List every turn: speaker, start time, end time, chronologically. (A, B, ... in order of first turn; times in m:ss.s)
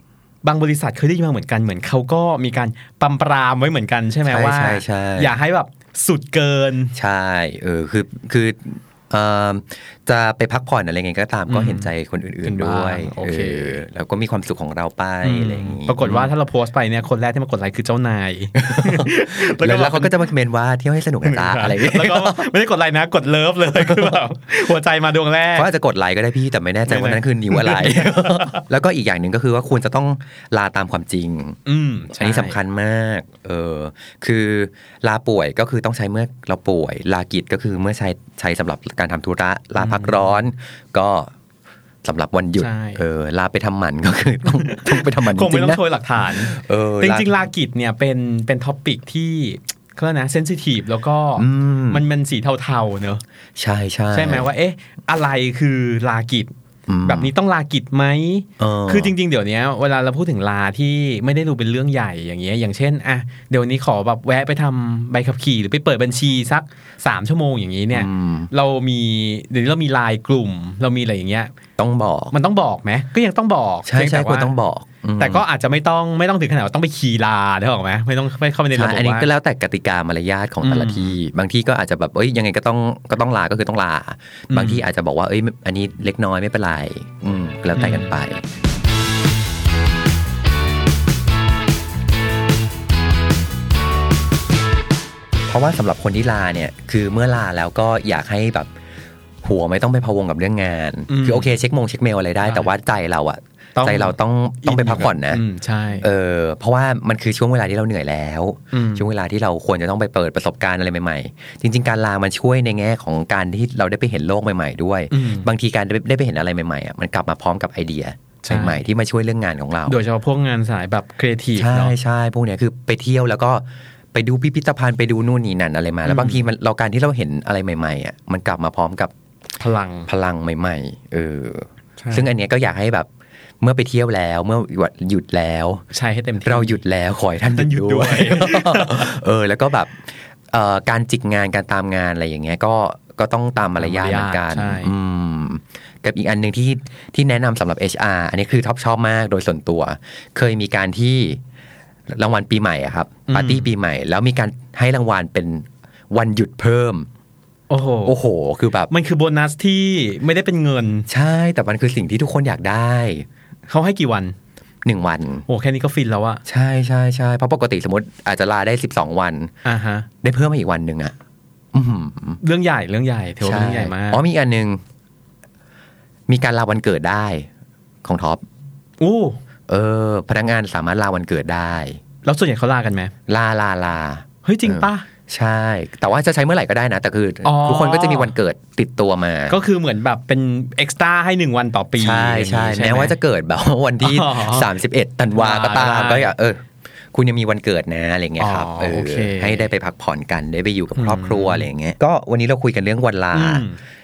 0:00.4-0:07.0 A
0:04.3-0:05.3 B
0:07.0-0:16.3 B
0:11.5-0:11.9 A
0:12.4-0:13.8 A
0:15.2-0:20.1 A
0:18.6-0:22.5 B
0:21.2-0:25.7 A
0:23.8-0:24.2 B
0:25.6-0:31.6 B
0:26.9-0:28.6 A
0:31.7-0:32.6 A
0:32.1-0:41.3 B
0:39.8-0:40.4 A
0:42.0-0:47.4 B
0:42.6-0:43.0 A
0:44.5-0:53.2 A
0:51.4-0:52.0 B
0:53.6-0:54.5 B
0:54.1-0:56.5 A
0:56.9-0:57.3 B
0:57.0-1:11.5 A
0:58.6-0:59.1 B
1:07.9-1:08.5 B
1:11.8-1:12.4 B
1:12.3-1:14.5 A
1:13.9-1:15.4 B
1:15.2-1:19.3 A
1:18.7-1:28.4 B
1:20.6-1:21.2 A
1:24.5-1:24.8 A
1:27.7-1:28.1 A
1:35.5-1:38.7 B
1:39.4-1:45.4 B
1:41.1-1:41.5 A
1:43.8-1:46.1 A
1:46.0-2:00.0 B
1:48.7-1:49.1 A
1:55.1-1:55.5 A
1:58.4-1:58.8 A
1:59.9-2:02.0 A
2:01.6-2:09.1 B
2:06.0-2:06.5 A
2:09.6-2:10.1 A
2:10.1-2:13.1 B
2:12.0-2:12.3 A
2:13.6-2:15.9 B
2:15.9-2:16.8 A
2:16.4-2:31.4 B
2:17.5-2:19.2 A
2:23.8-2:24.9 A
2:32.1-2:37.1 B
2:33.3-2:33.7 A
2:37.7-2:38.2 A
2:38.0-2:38.9 B
2:38.9-2:41.1 A
2:41.1-2:43.3 B
2:43.7-2:44.4 A
2:44.8-2:45.4 B
2:45.5-2:46.4 A
2:46.5-2:49.5 B
2:49.6-2:50.1 A
2:50.2-2:51.1 B
2:51.7-2:52.4 B
2:52.4-2:54.2 A
2:53.4-2:54.8 B
2:56.3-2:57.5 B
2:58.0-2:58.4 B
2:59.0-2:59.4 A
2:59.7-3:02.0 B
3:02.2-3:03.1 A
3:03.3-3:09.6 B
3:04.4-3:05.1 A
3:07.4-3:08.3 A
3:09.5-3:13.2 A
3:12.0-3:23.7 B
3:14.0-3:14.7 A
3:15.3-3:16.3 A
3:18.4-3:19.7 A
3:21.0-3:21.7 A
3:23.3-3:23.8 A